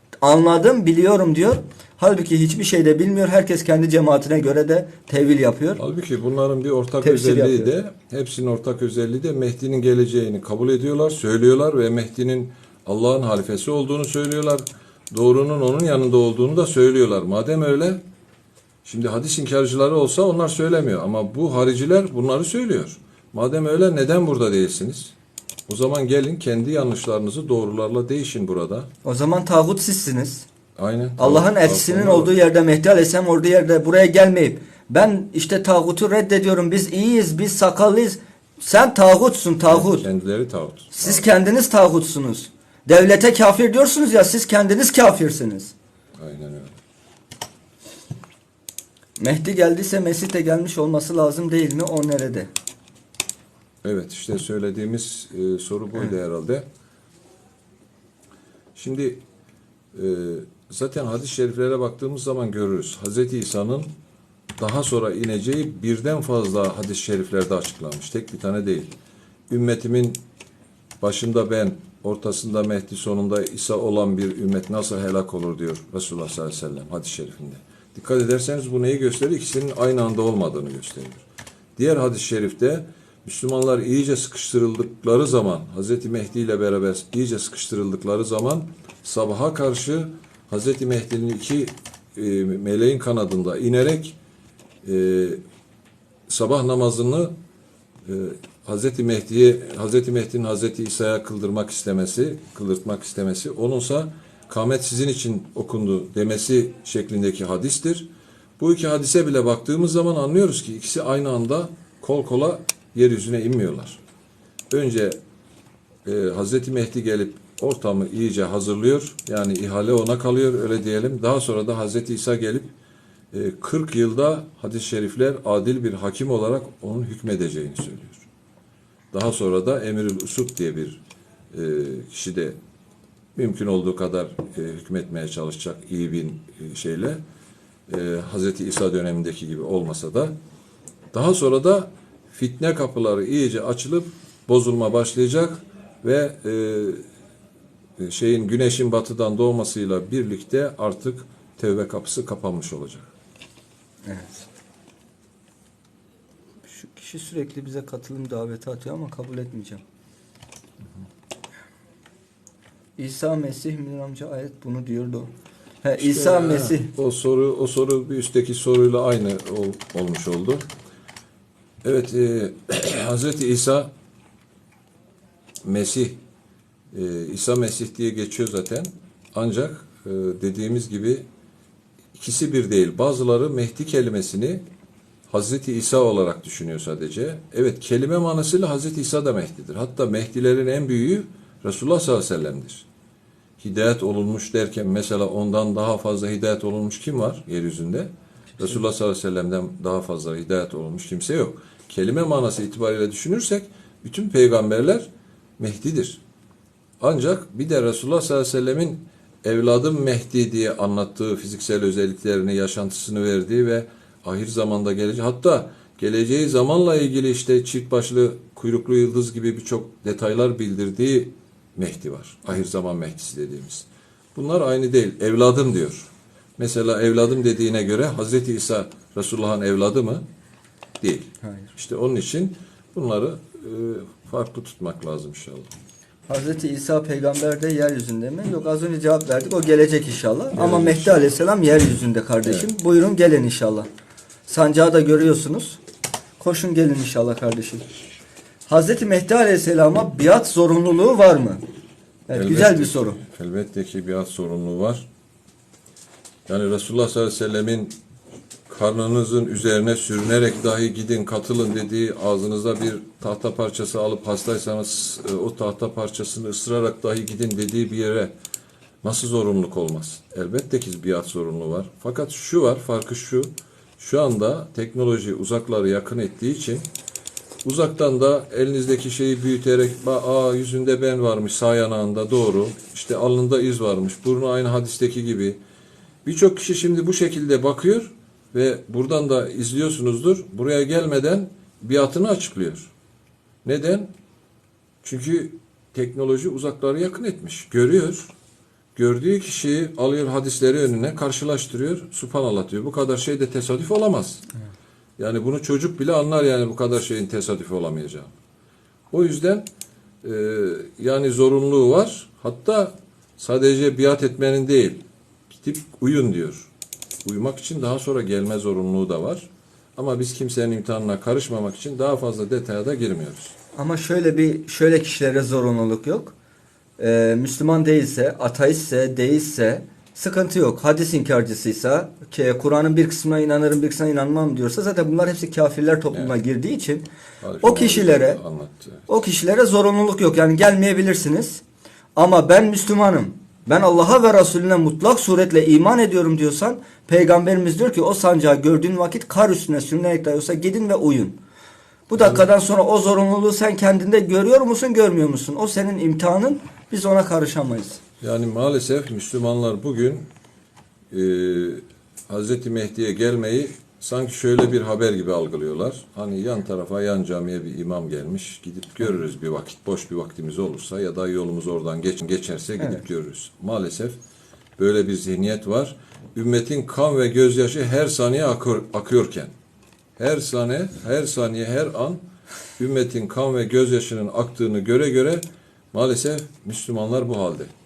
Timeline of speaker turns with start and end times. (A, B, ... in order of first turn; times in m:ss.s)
0:00.2-0:05.8 A
0:05.8-0:18.0 B
0:07.0-0:07.7 A
0:18.8-0:25.1 B
0:25.7-0:28.9 B
0:29.0-0:30.5 A
0:30.8-0:32.3 B
0:31.2-0:40.1 A
0:39.7-0:41.3 B
0:40.9-0:45.7 A
0:46.2-0:46.8 B
0:49.2-0:52.5 A
0:53.8-0:56.7 B
0:58.8-0:59.2 B
0:59.9-1:03.9 B
1:04.6-1:08.9 B
1:09.5-1:10.2 B
1:11.0-1:21.2 B
1:21.8-1:34.2 B
1:34.8-1:35.4 B
1:36.3-1:37.3 B
1:38.1-1:48.1 B
1:48.6-1:54.0 B
1:54.7-1:55.2 B
1:56.0-2:02.7 B
2:03.3-2:08.2 B
2:09.1-2:12.6 B
2:13.4-2:17.2 B
2:17.9-2:20.3 B
2:21.1-2:27.0 B
2:28.0-2:33.1 B
2:34.0-2:34.4 A
2:36.7-2:39.8 A
2:43.0-2:45.3 A
2:45.8-2:46.9 A
2:46.0-2:50.7 B
2:51.8-2:53.9 B
2:55.6-2:56.2 B
2:56.9-3:01.2 B
3:02.2-3:04.6 B
3:05.3-3:12.9 B
3:13.6-3:26.2 B
3:27.0-3:50.2 B
3:51.0-3:55.7 B
3:51.4-3:51.7 A
3:56.3-4:03.9 A
4:00.5-4:01.3 B
4:04.5-4:05.8 A
4:06.4-4:07.9 A
4:08.7-4:11.6 A
4:12.3-4:13.2 A
4:12.3-4:15.1 B
4:16.5-4:18.0 B
4:18.7-4:28.3 B
4:29.0-4:36.9 B
4:37.6-4:45.6 B
4:46.2-4:52.9 B
4:53.6-4:54.1 B
4:55.0-4:58.3 B
4:59.0-5:04.4 B
5:05.2-5:08.3 B
5:09.1-5:09.7 B
5:10.2-5:16.7 B
5:17.2-5:23.5 B
5:23.8-5:26.3 A
5:27.0-5:37.1 A
5:37.4-5:39.1 B
5:37.6-5:38.4 A
5:39.1-5:41.6 A
5:42.2-5:51.4 A
5:52.1-5:58.0 A
5:58.2-6:00.3 B
6:01.1-6:14.2 B
6:14.8-6:19.5 B
6:20.2-6:22.2 B
6:22.8-6:27.7 B